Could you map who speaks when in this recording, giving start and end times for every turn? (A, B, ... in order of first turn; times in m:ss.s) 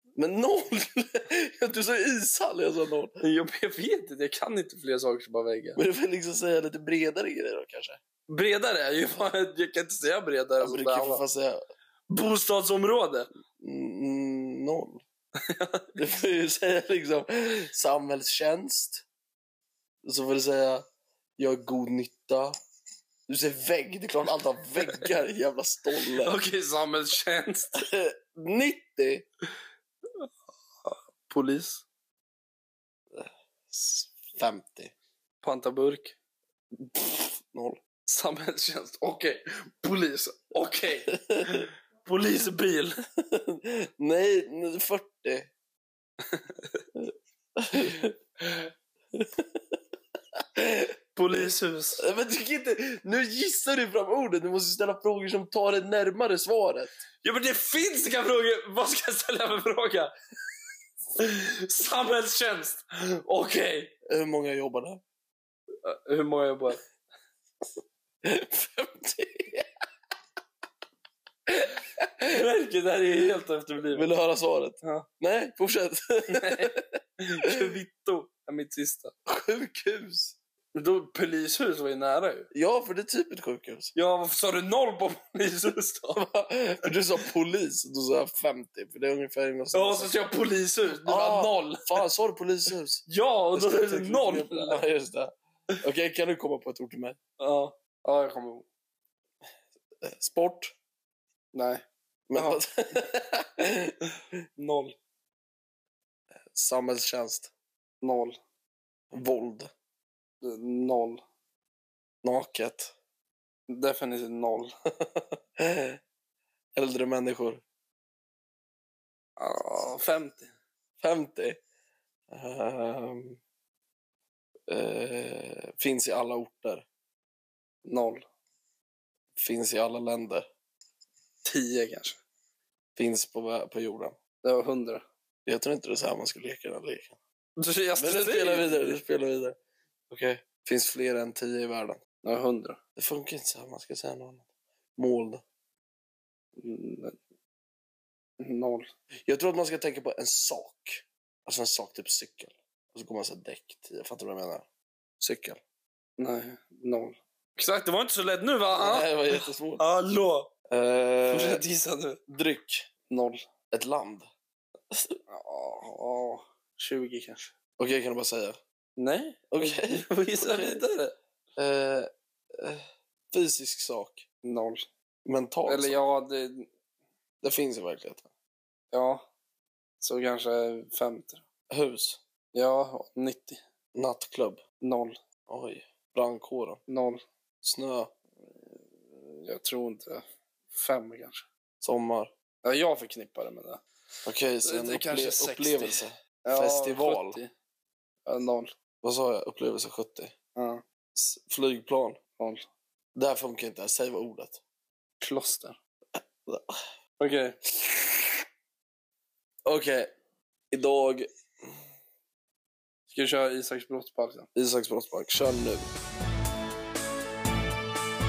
0:00.2-0:03.2 A
0:03.2-0:05.8 B
0:05.8-0:08.0 A
0:08.3-0:11.2 B
0:10.6-0:11.6 A
0:12.1-0:13.3 B
0:13.6-0:15.0 A
0:15.4-0:15.9 B
0:16.0-0:19.0 A
0:20.0-0:20.8 A
0:21.4-0:22.5 A
0:23.3-0:26.4 A
0:26.1-0:27.8 B
0:27.7-0:29.2 A
0:30.8-0:31.8 B
0:33.1-0:34.9 A
0:35.4-0:36.1 B
0:36.8-0:37.8 A
0:38.0-0:43.0 B
0:41.1-0:41.7 A
0:43.2-0:45.5 A
0:46.3-0:46.8 B
0:47.0-0:49.8 A
0:50.4-0:50.9 A
0:51.2-0:52.0 B
0:52.0-0:57.0 A
0:57.2-1:00.1 B
1:01.2-1:03.9 B
1:04.0-1:05.0 A
1:05.8-1:06.8 B
1:08.2-1:09.7 A
1:11.5-1:12.4 A
1:12.3-1:14.1 B
1:13.9-1:17.7 A
1:16.3-1:19.1 B
1:19.2-1:20.4 A
1:20.7-1:22.5 B
1:22.5-1:23.9 A
1:23.9-1:26.3 B
1:26.2-1:30.2 A
1:29.7-1:32.0 B
1:31.0-1:37.2 A
1:33.1-1:34.8 B
1:37.4-1:38.6 B
1:40.0-1:40.7 A
1:41.5-1:42.6 B
1:42.3-1:44.0 A
1:44.6-1:45.0 B
1:46.5-1:47.5 A
1:48.0-1:48.4 B
1:49.1-1:49.7 A
1:50.4-1:51.2 B
1:52.2-1:52.9 A
1:53.7-1:54.7 B
1:55.0-1:56.0 A
1:56.7-1:57.6 A
1:59.4-2:00.5 B
2:01.0-2:01.6 A
2:02.3-2:03.4 A
2:04.7-2:06.8 A
2:07.8-2:08.3 B
2:09.4-2:10.5 A
2:11.4-2:12.2 B
2:13.0-2:14.2 A
2:14.4-2:15.0 B
2:15.4-2:17.2 A
2:17.6-2:19.0 B
2:18.0-2:19.6 A
2:20.1-2:22.0 A
2:22.2-2:22.8 B
2:23.0-2:24.4 A
2:25.0-2:25.4 A
2:26.6-2:27.2 B
2:28.4-2:28.9 B
2:29.2-2:34.6 A
2:35.2-2:35.6 A
2:36.2-2:40.5 B
2:38.8-2:39.8 A
2:40.7-2:41.6 A
2:41.3-2:42.2 B
2:42.3-2:42.9 A
2:43.1-2:43.5 B
2:43.7-2:44.3 A
2:44.9-2:45.2 A
2:45.3-2:47.5 B
2:47.8-2:48.6 A
2:49.0-2:51.2 B
2:49.5-2:50.8 A
2:51.6-2:54.2 A
2:54.4-2:54.9 B
2:55.2-2:56.0 A
2:55.6-2:56.7 B
2:57.4-2:58.3 A
2:58.9-2:59.2 B
3:00.0-3:01.4 B
3:01.7-3:02.2 A
3:02.5-3:03.6 B
3:03.9-3:04.6 A
3:04.8-3:05.2 B
3:05.5-3:06.8 A
3:06.9-3:07.2 B
3:07.6-3:08.1 A
3:08.7-3:11.4 B
3:11.8-3:12.3 A
3:12.6-3:13.8 B
3:14.2-3:17.4 A
3:14.6-3:17.5 B
3:18.2-3:18.7 B
3:19.0-3:20.3 A
3:20.5-3:20.8 B
3:21.1-3:22.2 A
3:22.4-3:22.6 B
3:23.1-3:24.6 A
3:25.2-3:25.8 B
3:26.4-3:26.8 A
3:27.2-3:28.1 B
3:29.6-3:30.1 A
3:30.7-3:31.3 A
3:33.1-3:34.5 B
3:34.5-3:35.8 A